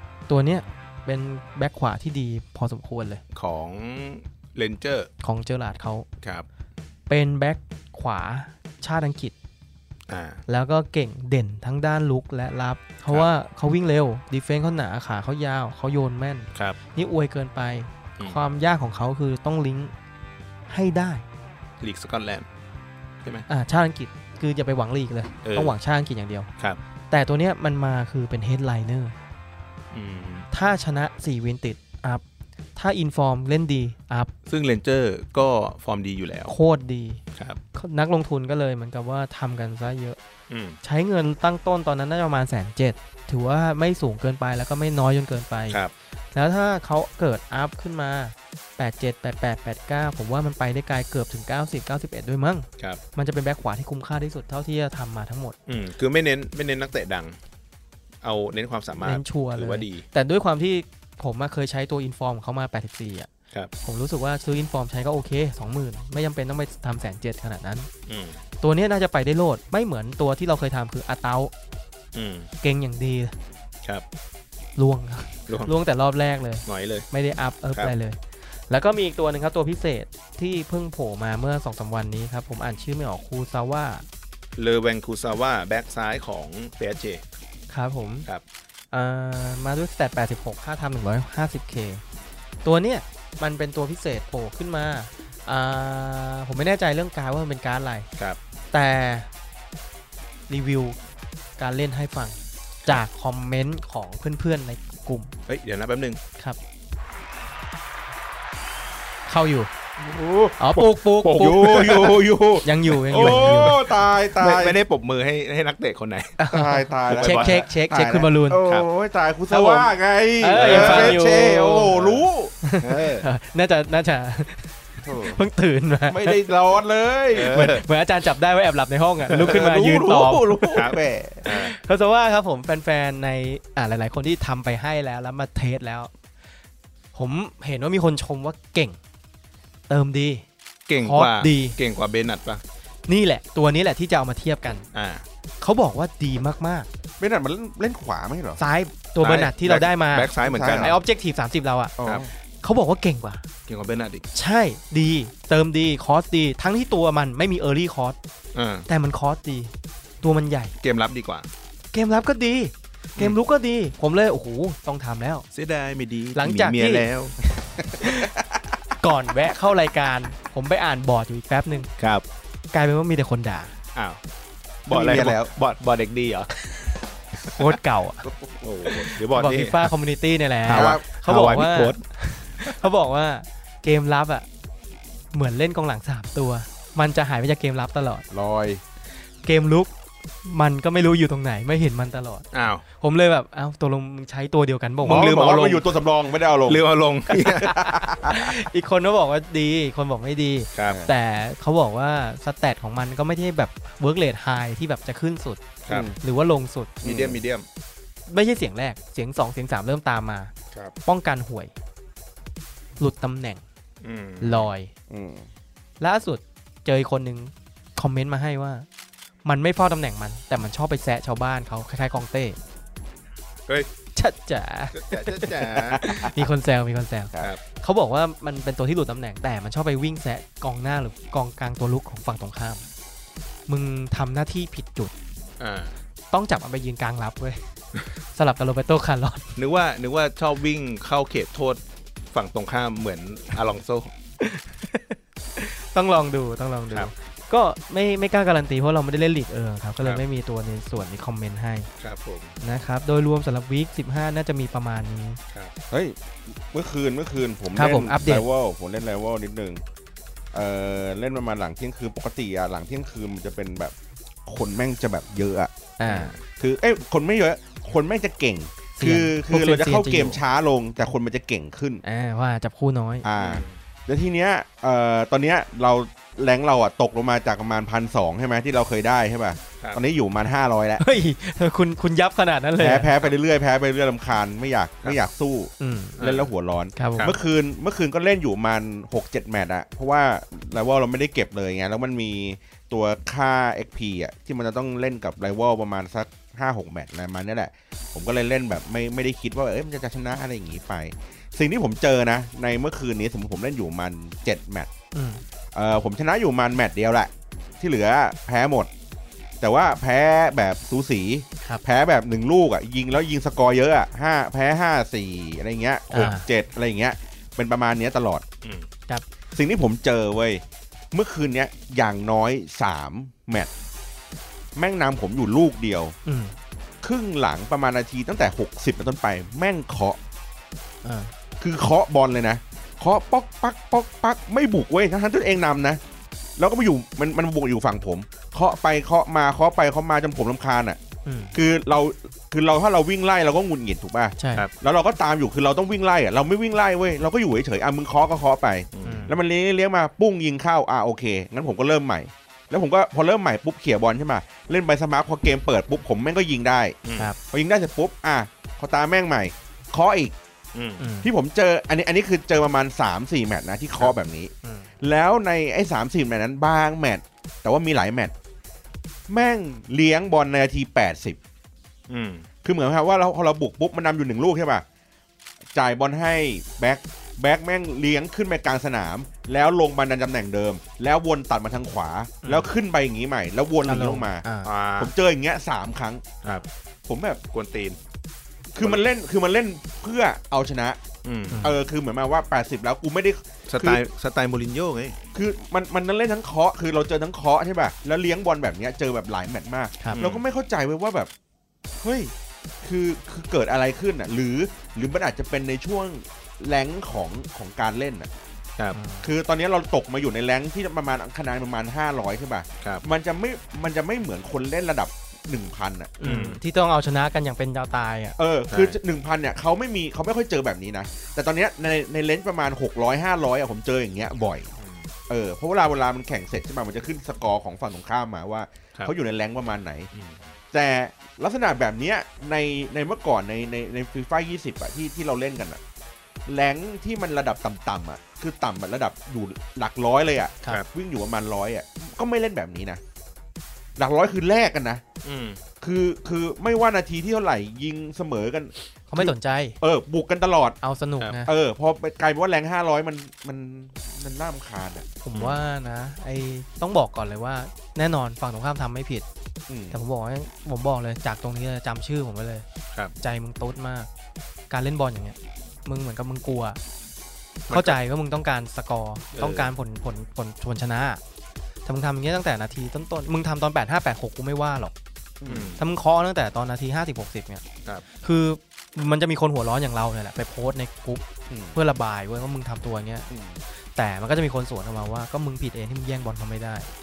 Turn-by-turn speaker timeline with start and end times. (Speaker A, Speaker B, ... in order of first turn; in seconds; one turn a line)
Speaker A: 0.3-3.2
Speaker B: 3.3-5.1
Speaker A: 5.2-6.0
Speaker A: 7.1-9.3
Speaker B: 10.1-10.4
Speaker A: 10.5-19.9
Speaker A: 20.7-21.2
Speaker B: 21.8-22.5
Speaker A: 23.5-26.5
Speaker B: 25.4-25.7
Speaker A: 27.1-29.1
Speaker B: 29.9-30.5
Speaker A: 30.5-32.2
Speaker A: 32.8-34.3
Speaker B: 34.5-36.5
Speaker A: 36.5-37.2
Speaker B: 37.3-37.6
Speaker A: 37.7-40.2
Speaker B: 40.5-40.8
Speaker A: 40.8-45.8
Speaker A: 46.3-55.5
Speaker B: 55.7-57.4
Speaker B: 58.2-60.0
Speaker A: 59.0-63.3
Speaker A: 63.8-67.9
Speaker B: 68.1-68.4
Speaker A: 68.6-71.5
Speaker B: 72.1-72.5
Speaker A: 72.6-73.3
Speaker A: 74.8-84.0
Speaker B: 75.5-75.7
Speaker B: 76.7-77.1
Speaker B: 84.6-87.2
Speaker A: 87.7-88.3
Speaker A: 88.9-92.0
Speaker A: 92.6-98.1
Speaker A: 98.7-99.3
Speaker A: 100.5-101.0
Speaker A: 101.6-105.3
Speaker B: 105.5-106.2
Speaker A: 109.3-109.7
Speaker C: 110.0-110.5
Speaker A: 110.6-112.1
Speaker B: 110.7-116.4
Speaker C: 111.3-114.8
Speaker A: 112.6-113.8
Speaker A: 116.4-118.6
Speaker C: 116.5-122.5
Speaker B: 117.1-117.6
Speaker A: 119.5-119.9
Speaker A: 120.4-121.9
Speaker B: 120.5-122.3
Speaker A: 122.6-126.4
Speaker B: 122.8-123.2
Speaker C: 125.0-125.4
Speaker C: 126.1-127.7
Speaker B: 127.3-127.8
Speaker A: 127.5-130.8
Speaker B: 129.3-129.6
Speaker C: 129.4-131.4
Speaker B: 130.7-131.7
Speaker A: 131.4-136.1
Speaker A: 137.1-139.0
Speaker A: 139.9-140.4
Speaker B: 140.9-142.6
Speaker A: 141.0-141.8
Speaker A: 143.1-144.8
Speaker B: 144.9-145.2
Speaker A: 145.6-146.9
Speaker C: 147.2-148.6
Speaker A: 148.6-151.9
Speaker B: 149.2-150.9
Speaker C: 150.4-150.9
Speaker C: 152.0-152.3
Speaker A: 152.6-153.4
Speaker B: 153.7-154.2
Speaker A: 154.3-158.2
Speaker B: 158.5-158.9
Speaker A: 158.9-160.7
Speaker B: 160.8-161.5
Speaker A: 161.9-165.4
Speaker B: 165.5-167.3
Speaker A: 166.3-168.4
Speaker A: 169.0-171.9
Speaker B: 172.0-172.2
Speaker A: 172.7-173.7
Speaker B: 174.9-177.8
Speaker C: 174.9-175.5
Speaker A: 177.4-178.3
Speaker B: 178.6-179.9
Speaker A: 178.8-184.4
Speaker B: 180.7-182.0
Speaker C: 180.7-181.0
Speaker A: 185.3-188.2
Speaker C: 188.3-188.8
Speaker A: 189.4-189.9
Speaker A: 190.4-192.4
Speaker B: 192.5-192.8
Speaker A: 193.0-195.3
Speaker B: 195.0-195.9
Speaker C: 195.0-196.8
Speaker B: 196.7-197.8
Speaker A: 197.3-205.6
Speaker C: 197.6-198.5
Speaker B: 200.7-201.0
Speaker C: 200.8-201.1
Speaker B: 205.8-206.1
Speaker C: 205.9-206.2
Speaker A: 206.2-207.0
Speaker B: 207.0-207.7
Speaker C: 207.0-207.4
Speaker A: 208.3-210.5
Speaker A: 211.0-211.7
Speaker A: 213.0-213.6
Speaker B: 214.0-214.7
Speaker A: 214.4-214.9
Speaker C: 215.1-215.5
Speaker A: 216.0-218.8
Speaker A: 219.4-222.6
Speaker A: 224.2-232.8
Speaker B: 224.9-226.2
Speaker A: 233.7-235.1
Speaker B: 235.6-235.9
Speaker A: 236.3-237.6
Speaker A: 238.3-239.5
Speaker B: 239.6-241.8
Speaker B: 242.3-244.1
Speaker A: 244.4-251.9
Speaker B: 252.0-252.6
Speaker A: 252.6-255.4
Speaker C: 255.9-259.8
Speaker A: 257.7-258.4
Speaker C: 260.5-263.9
Speaker C: 264.4-265.7
Speaker A: 266.0-266.4
Speaker B: 266.1-266.4
Speaker C: 266.5-272.0
Speaker A: 269.0-270.4
Speaker A: 272.0-273.3
Speaker C: 273.2-281.0
Speaker B: 273.4-273.8
Speaker A: 281.0-283.1
Speaker C: 282.8-304.9
Speaker A: 285.8-286.2
Speaker B: 286.2-286.5
Speaker A: 287.0-287.3
Speaker A: 305.1-305.4
Speaker C: 305.7-308.9
Speaker C: 309.6-318.4
Speaker A: 316.1-316.5
Speaker C: 319.5-320.6
Speaker C: 321.1-323.7
Speaker C: 324.8-326.1
Speaker A: 326.2-326.6
Speaker C: 327.0-330.2
Speaker A: 331.0-331.3
Speaker C: 331.6-336.0
Speaker C: 336.6-341.0
Speaker A: 341.2-341.5
Speaker C: 341.5-356.9
Speaker A: 344.4-344.7
Speaker B: 348.9-349.3
Speaker A: 349.0-349.4
Speaker B: 357.0-357.3
Speaker C: 357.5-360.4
Speaker B: 360.7-361.0
Speaker A: 361.0-361.3
Speaker C: 361.2-368.3
Speaker C: 369.3-371.4
Speaker B: 372.1-372.5
Speaker C: 372.6-374.8
Speaker C: 375.7-384.4
Speaker A: 382.4-382.8
Speaker A: 383.9-384.7
Speaker B: 384.6-385.1
Speaker C: 385.0-386.2
Speaker C: 387.1-387.4
Speaker B: 387.5-388.0
Speaker C: 388.7-391.0
Speaker B: 391.2-391.7
Speaker C: 391.6-394.0
Speaker B: 393.7-395.2
Speaker C: 395.3-401.3
Speaker B: 400.1-400.4
Speaker C: 402.0-408.3
Speaker A: 408.9-409.3
Speaker C: 409.2-416.2
Speaker A: 416.2-418.4
Speaker B: 416.2-416.6
Speaker C: 418.4-424.7
Speaker B: 418.7-419.0
Speaker B: 424.8-425.1
Speaker C: 425.3-430.1
Speaker B: 430.1-430.6
Speaker C: 430.7-435.8
Speaker C: 436.5-443.0
Speaker C: 444.0-445.0
Speaker B: 445.2-445.6
Speaker C: 445.8-450.8
Speaker A: 449.1-449.8
Speaker A: 450.8-451.5
Speaker C: 451.4-455.1
Speaker A: 455.2-459.2
Speaker B: 455.3-455.7
Speaker C: 459.7-460.0
Speaker A: 459.9-462.6
Speaker A: 463.2-464.1
Speaker A: 464.7-466.8
Speaker B: 467.7-468.0
Speaker A: 467.7-471.2
Speaker B: 469.3-469.7
Speaker A: 471.9-474.9
Speaker C: 475.4-475.8
Speaker B: 475.5-475.8
Speaker A: 475.8-477.6
Speaker A: 478.2-483.3
Speaker C: 481.5-481.8
Speaker C: 483.3-483.6
Speaker A: 483.9-486.9